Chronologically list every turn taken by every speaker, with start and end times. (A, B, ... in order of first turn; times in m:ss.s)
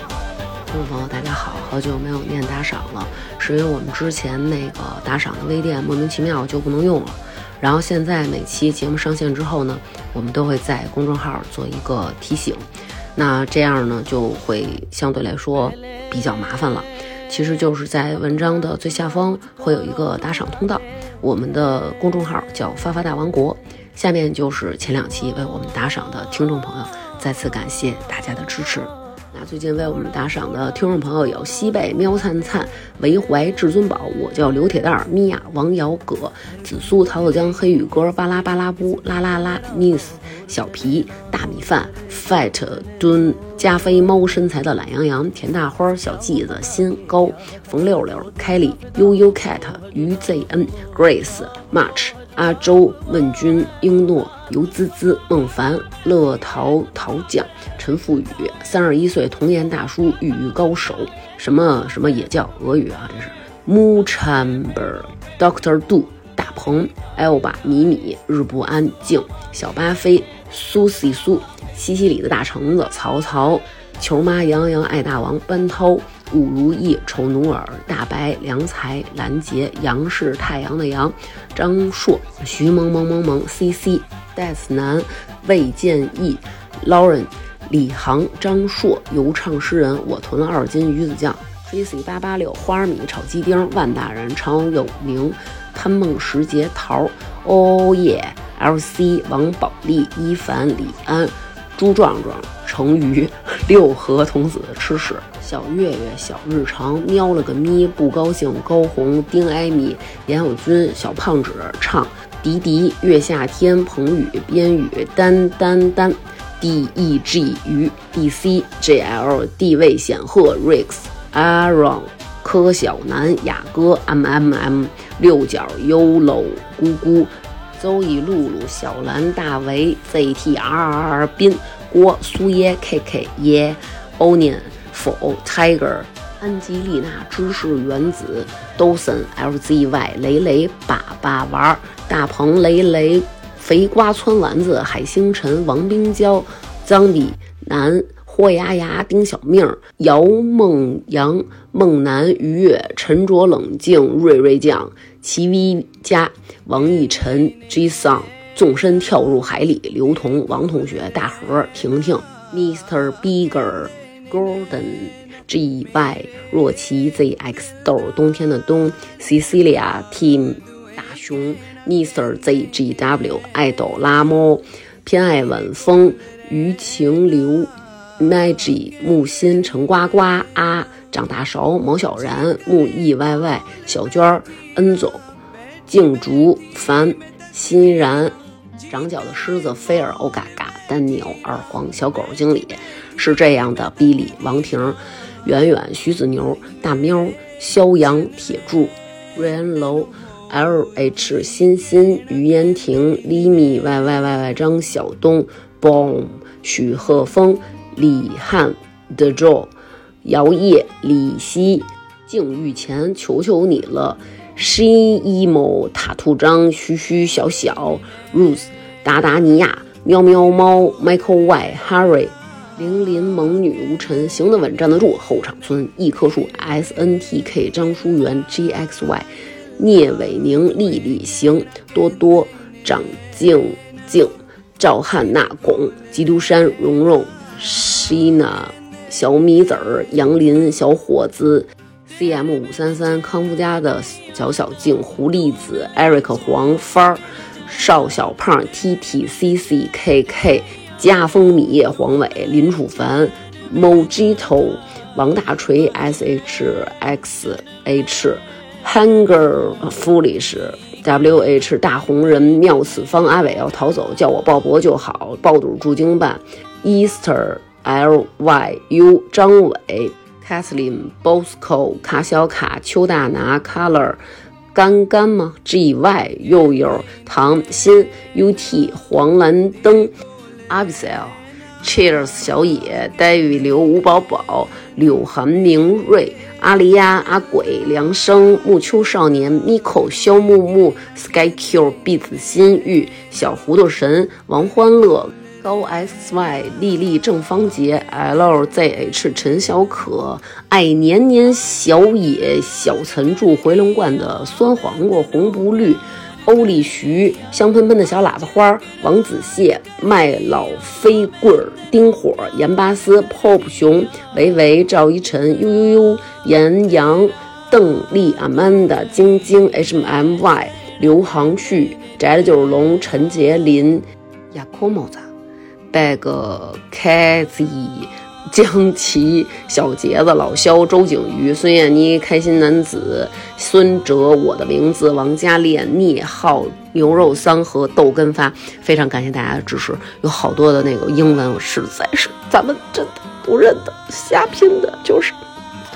0:00.7-0:12.6 A
0:13.1-3:05.2 A
3:05.9-3:08.3 A
3:08.9-3:29.7 A
3:30.2-4:34.2 A
4:34.7-4:40.1 A
4:40.7-5:25.3 A
5:25.9-5:45.4 A